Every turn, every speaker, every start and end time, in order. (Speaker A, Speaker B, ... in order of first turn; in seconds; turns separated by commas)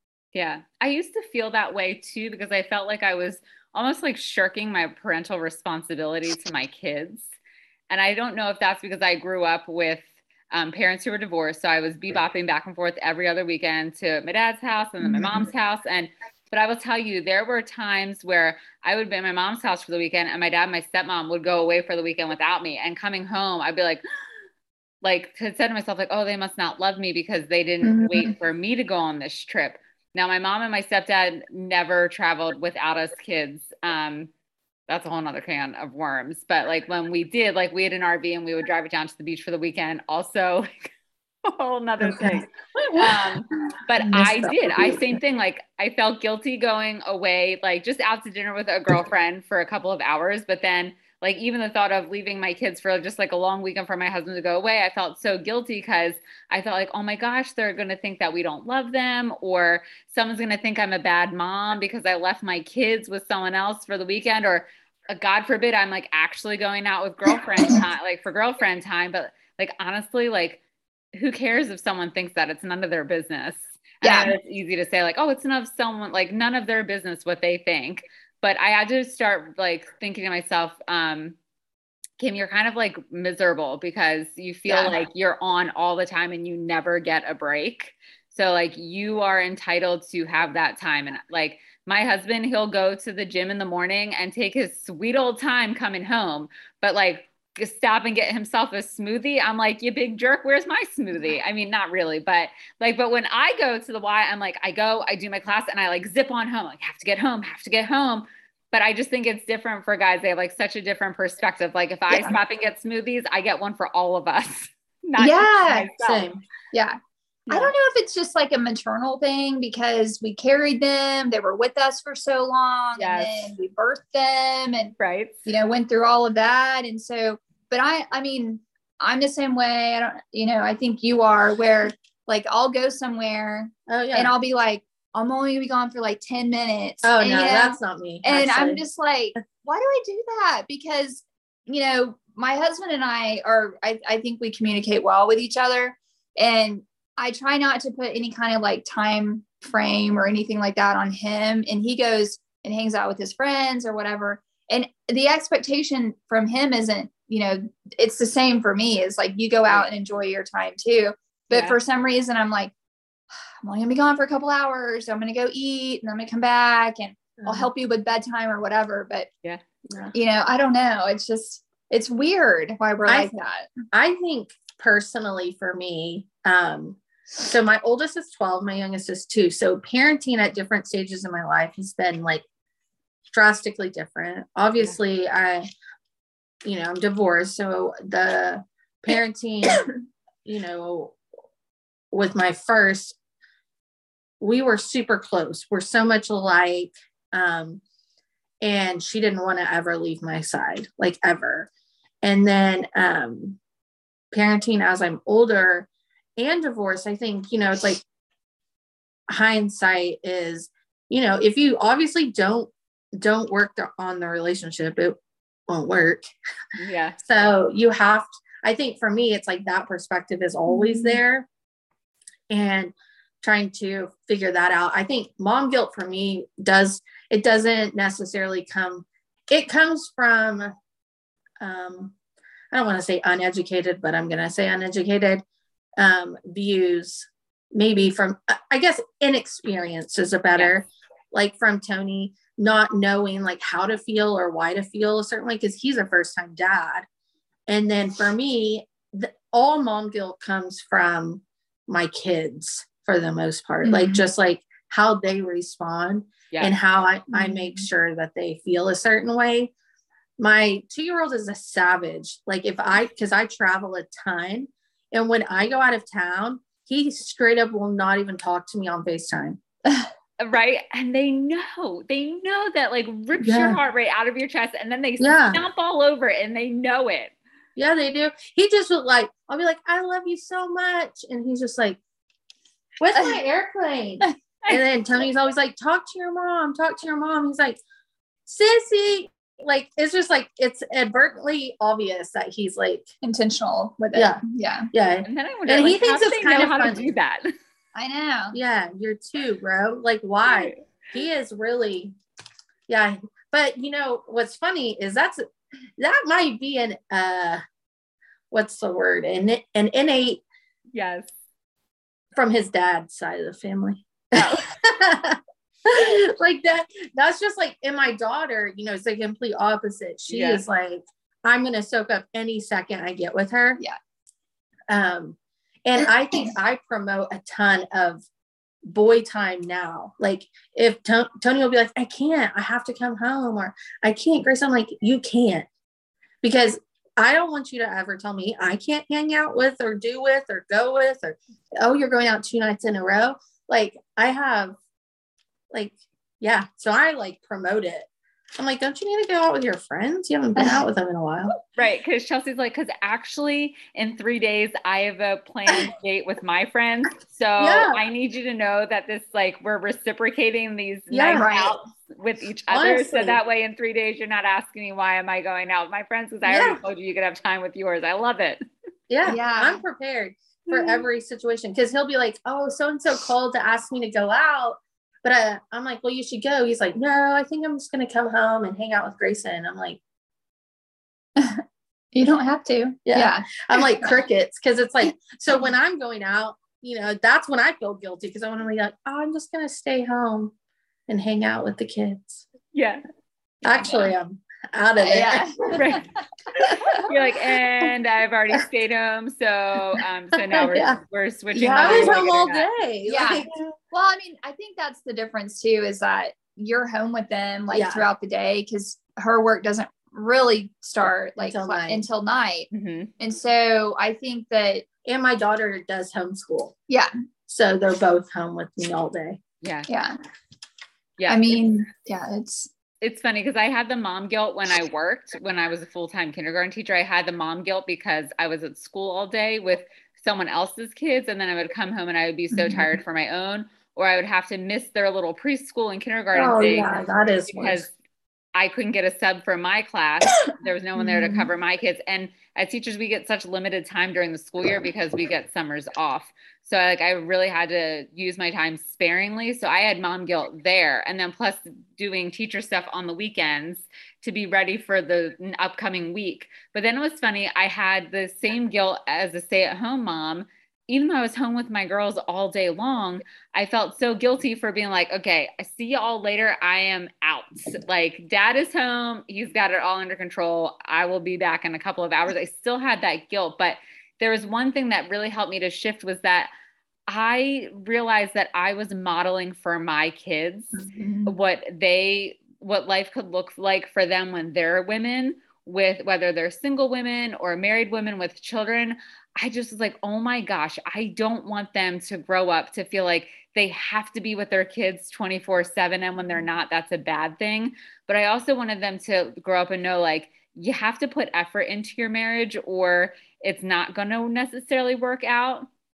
Speaker A: 0.3-7.3, Speaker A: 7.9-24.0, Speaker B: 15.1-15.4, Speaker A: 25.0-34.3, Speaker C: 27.9-28.3, Speaker A: 34.9-40.9, Speaker A: 41.4-70.6, Speaker B: 42.0-42.4, Speaker B: 44.0-45.2, Speaker A: 71.1-81.4, Speaker C: 74.0-74.3, Speaker A: 82.2-116.2, Speaker C: 115.2-115.9, Speaker B: 116.0-116.4, Speaker C: 116.7-117.0, Speaker C: 117.5-124.9, Speaker A: 123.0-123.5, Speaker A: 125.0-125.4, Speaker C: 125.5-162.7, Speaker B: 133.9-134.3, Speaker B: 137.0-138.8, Speaker A: 161.5-161.8, Speaker C: 163.6-169.3, Speaker B: 167.4-167.7, Speaker C: 170.1-173.7, Speaker B: 173.1-173.3, Speaker B: 173.9-182.4, Speaker B: 183.3-185.7, Speaker B: 186.6-189.9, Speaker B: 190.4-191.2, Speaker B: 192.1-193.2, Speaker B: 194.4-197.8, Speaker B: 198.6-201.7, Speaker B: 202.2-203.6, Speaker B: 204.3-208.0, Speaker B: 209.3-216.3, Speaker A: 216.8-217.2, Speaker B: 217.2-221.5, Speaker C: 220.7-221.2, Speaker B: 222.5-230.7, Speaker B: 231.6-232.1, Speaker B: 232.7-235.4, Speaker B: 236.0-247.1, Speaker B: 247.7-259.7, Speaker C: 253.8-254.2, Speaker C: 257.3-257.8, Speaker B: 260.4-269.6, Speaker A: 270.4-277.3, Speaker B: 273.4-273.8, Speaker B: 275.2-275.6, Speaker B: 277.8-282.0, Speaker B: 283.0-287.8, Speaker B: 288.4-293.1, Speaker C: 293.2-294.9, Speaker B: 294.1-294.4, Speaker B: 294.9-297.1, Speaker A: 295.2-297.5, Speaker C: 297.9-298.6, Speaker B: 298.5-302.1, Speaker A: 300.5-300.8, Speaker B: 302.9-305.4, Speaker B: 306.0-307.6, Speaker B: 308.5-310.4, Speaker A: 310.9-311.3, Speaker B: 312.4-323.8, Speaker A: 314.3-314.7, Speaker A: 320.3-320.6, Speaker B: 324.9-328.2, Speaker B: 328.9-335.7, Speaker B: 336.4-344.8, Speaker B: 345.7-351.5, Speaker C: 350.6-350.8, Speaker A: 351.8-368.6, Speaker B: 357.6-358.0, Speaker B: 361.1-361.5, Speaker C: 361.3-361.8, Speaker B: 362.7-363.4, Speaker B: 366.4-366.8, Speaker B: 369.1-380.0, Speaker C: 369.3-369.8, Speaker C: 381.4-384.1, Speaker B: 383.1-390.5, Speaker B: 391.1-392.4, Speaker A: 392.7-393.0, Speaker B: 393.6-395.8, Speaker C: 395.0-395.9, Speaker A: 395.7-396.1, Speaker A: 396.6-402.7, Speaker B: 400.5-401.0, Speaker B: 401.5-403.6, Speaker C: 401.6-402.2, Speaker C: 403.1-412.7, Speaker B: 407.7-408.1, Speaker B: 411.0-412.0, Speaker A: 412.7-413.1, Speaker C: 413.2-414.9, Speaker B: 415.0-416.8, Speaker B: 417.5-419.4, Speaker A: 419.6-419.9, Speaker C: 419.9-420.1, Speaker A: 421.2-421.6, Speaker C: 421.3-422.7, Speaker A: 423.0-436.9, Speaker B: 432.6-432.9, Speaker B: 436.3-437.9, Speaker A: 437.5-437.9, Speaker A: 438.6-476.5, Speaker B: 441.0-441.4, Speaker A: 477.1-505.7